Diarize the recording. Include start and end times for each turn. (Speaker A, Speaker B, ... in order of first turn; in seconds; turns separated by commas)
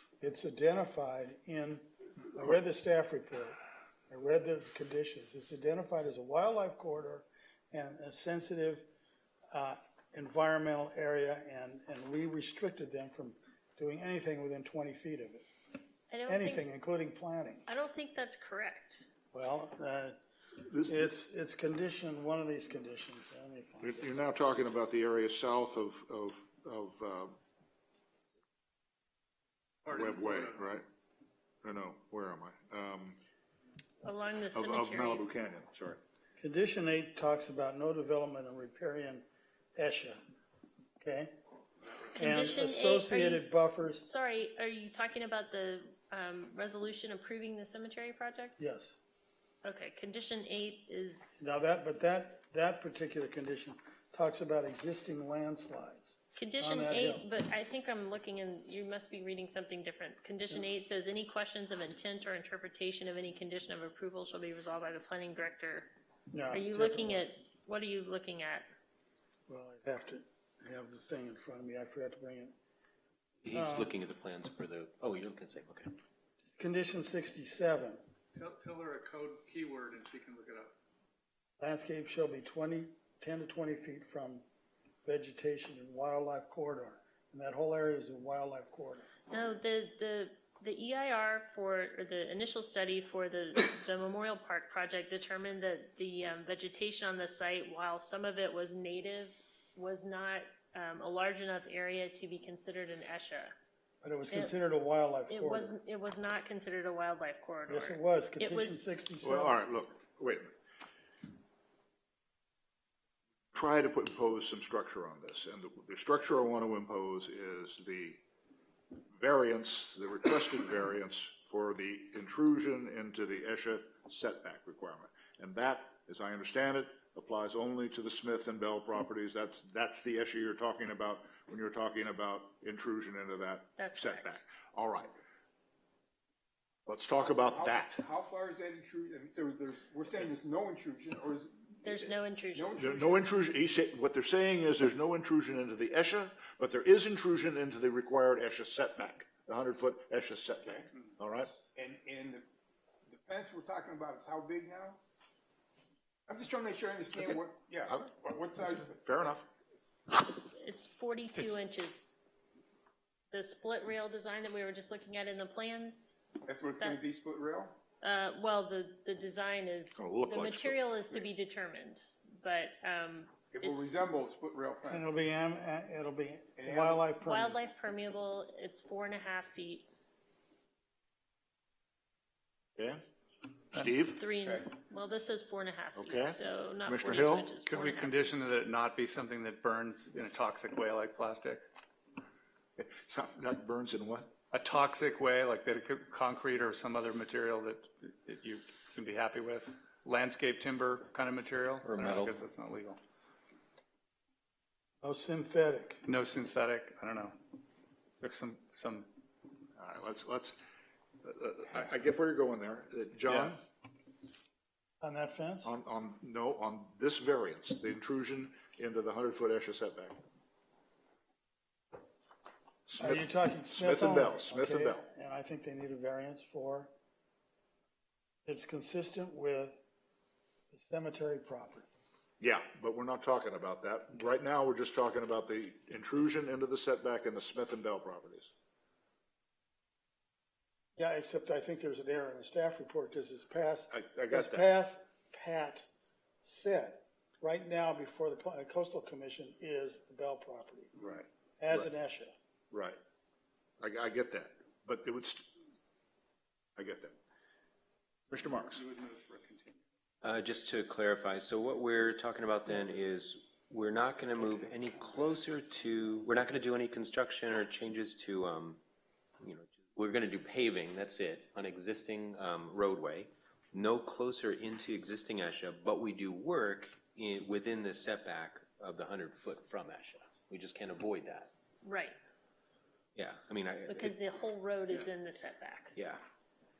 Speaker A: 0.2-3.6, Speaker A: 4.1-8.8, Speaker A: 9.5-15.5, Speaker B: 16.1-16.6, Speaker A: 16.3-17.7, Speaker B: 17.7-19.1, Speaker A: 19.3-20.2, Speaker C: 20.7-21.0, Speaker A: 20.8-24.1, Speaker C: 23.8-27.3, Speaker C: 29.9-30.8, Speaker C: 31.6-33.2, Speaker B: 34.0-35.2, Speaker C: 34.5-36.0, Speaker A: 36.4-40.2, Speaker A: 41.0-41.4, Speaker A: 42.1-44.0, Speaker B: 42.1-48.6, Speaker A: 48.6-49.0, Speaker B: 49.6-51.4, Speaker A: 51.4-57.2, Speaker B: 56.4-65.9, Speaker A: 66.3-67.2, Speaker B: 66.5-68.7, Speaker A: 69.5-72.5, Speaker D: 73.4-75.9, Speaker A: 73.5-73.9, Speaker A: 76.5-78.0, Speaker E: 78.4-80.7, Speaker A: 81.6-84.4, Speaker A: 85.0-89.1, Speaker B: 89.3-103.5, Speaker A: 104.0-105.7, Speaker B: 105.3-108.8, Speaker A: 107.7-109.6, Speaker C: 109.2-110.5, Speaker C: 113.5-118.2, Speaker C: 119.1-135.1, Speaker B: 133.8-134.4, Speaker C: 136.9-138.0, Speaker F: 137.2-143.2, Speaker B: 141.8-142.9, Speaker C: 142.8-151.5, Speaker F: 151.7-152.4, Speaker F: 153.0-155.0, Speaker F: 156.3-159.0, Speaker C: 158.8-159.4, Speaker B: 160.1-162.2, Speaker B: 163.3-166.2, Speaker F: 166.4-167.8, Speaker B: 168.0-173.9, Speaker C: 169.9-170.8, Speaker F: 173.5-175.1, Speaker A: 174.9-177.6, Speaker F: 176.6-177.1, Speaker B: 177.2-179.9, Speaker C: 183.7-184.2, Speaker B: 184.2-188.3, Speaker F: 184.4-184.7, Speaker C: 185.9-187.5, Speaker E: 187.7-191.6, Speaker C: 192.8-194.3, Speaker E: 194.5-203.0, Speaker A: 205.0-206.0, Speaker E: 206.0-207.3, Speaker E: 208.2-209.1, Speaker C: 209.8-210.6, Speaker C: 211.2-213.6, Speaker E: 213.3-213.5, Speaker A: 215.0-215.7, Speaker C: 215.6-220.2, Speaker C: 222.9-225.0, Speaker A: 223.0-226.9, Speaker A: 228.4-229.8, Speaker A: 230.7-231.9, Speaker C: 232.4-238.5, Speaker A: 241.0-245.9, Speaker C: 243.9-244.7, Speaker A: 246.4-250.9, Speaker C: 251.0-251.9, Speaker A: 251.6-252.3, Speaker C: 252.7-253.0, Speaker C: 253.8-255.5, Speaker C: 256.8-257.1, Speaker C: 258.3-258.8, Speaker E: 258.7-259.8, Speaker D: 260.2-268.8, Speaker D: 269.4-281.5, Speaker B: 281.8-282.1, Speaker D: 283.1-284.1, Speaker B: 283.9-285.9, Speaker D: 285.9-286.2